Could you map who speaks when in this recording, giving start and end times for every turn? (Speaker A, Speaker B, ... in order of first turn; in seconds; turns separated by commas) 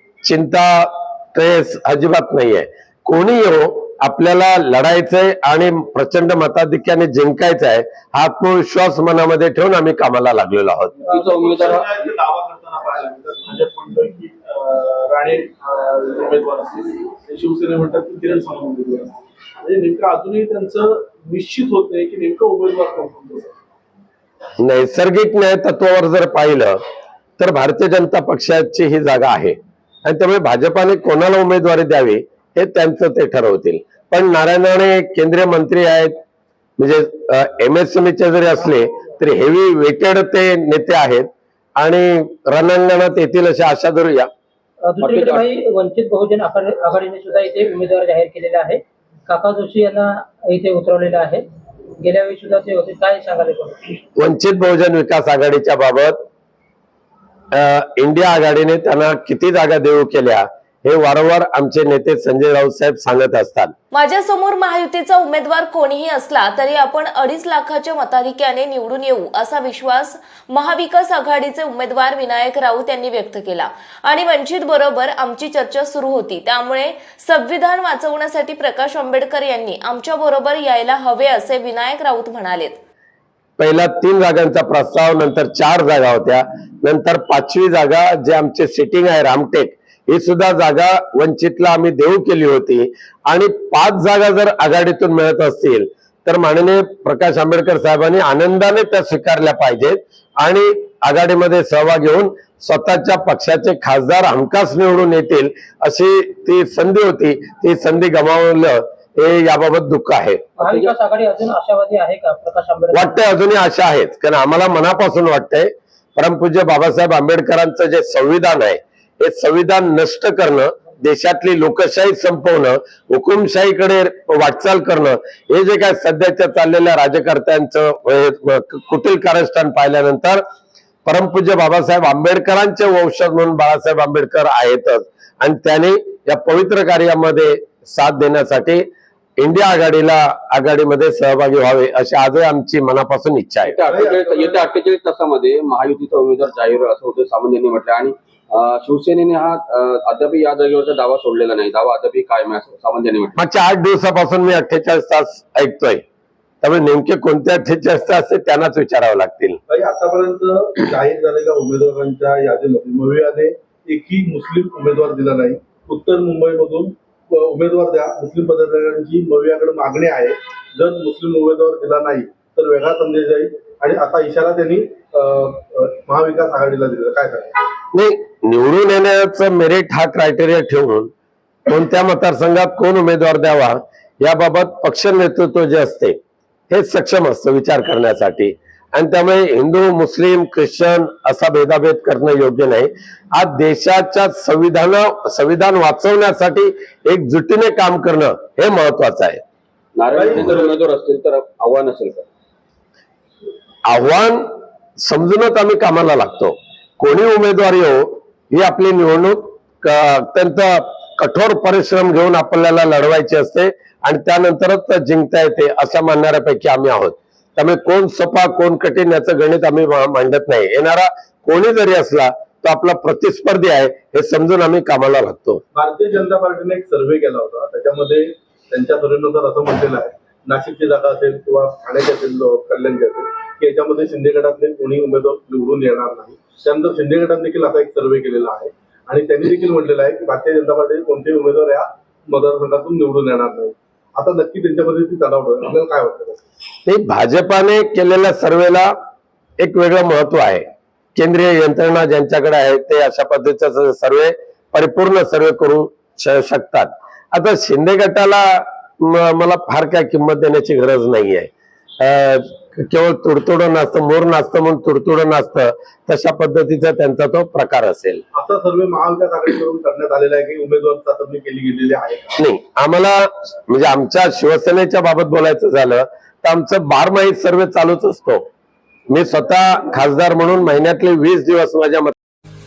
Speaker A: 0.2-10.9, Speaker B: 11.0-11.9, Speaker C: 11.4-19.1, Speaker C: 19.6-23.5, Speaker A: 24.6-26.8, Speaker A: 27.4-36.1, Speaker A: 36.8-41.3, Speaker A: 41.8-44.3, Speaker D: 44.8-51.4, Speaker B: 45.0-45.5, Speaker D: 52.0-54.0, Speaker A: 54.2-56.2, Speaker A: 57.5-63.7, Speaker E: 63.9-82.8, Speaker A: 83.6-110.4, Speaker D: 110.6-113.2, Speaker A: 112.9-130.4, Speaker A: 131.1-138.8, Speaker A: 139.4-143.8, Speaker B: 143.6-153.4, Speaker C: 143.8-144.7, Speaker A: 153.3-156.0, Speaker A: 156.6-159.6, Speaker C: 159.7-177.5, Speaker A: 177.9-181.1, Speaker A: 181.7-186.2, Speaker A: 186.7-199.4, Speaker B: 199.9-202.3, Speaker C: 200.1-200.7, Speaker A: 203.9-204.4, Speaker A: 205.0-225.6, Speaker C: 225.7-246.4, Speaker A: 246.8-248.9, Speaker A: 249.6-250.6, Speaker A: 251.2-261.5, Speaker A: 262.0-268.2, Speaker C: 268.3-272.4, Speaker A: 272.4-278.4, Speaker A: 279.1-282.1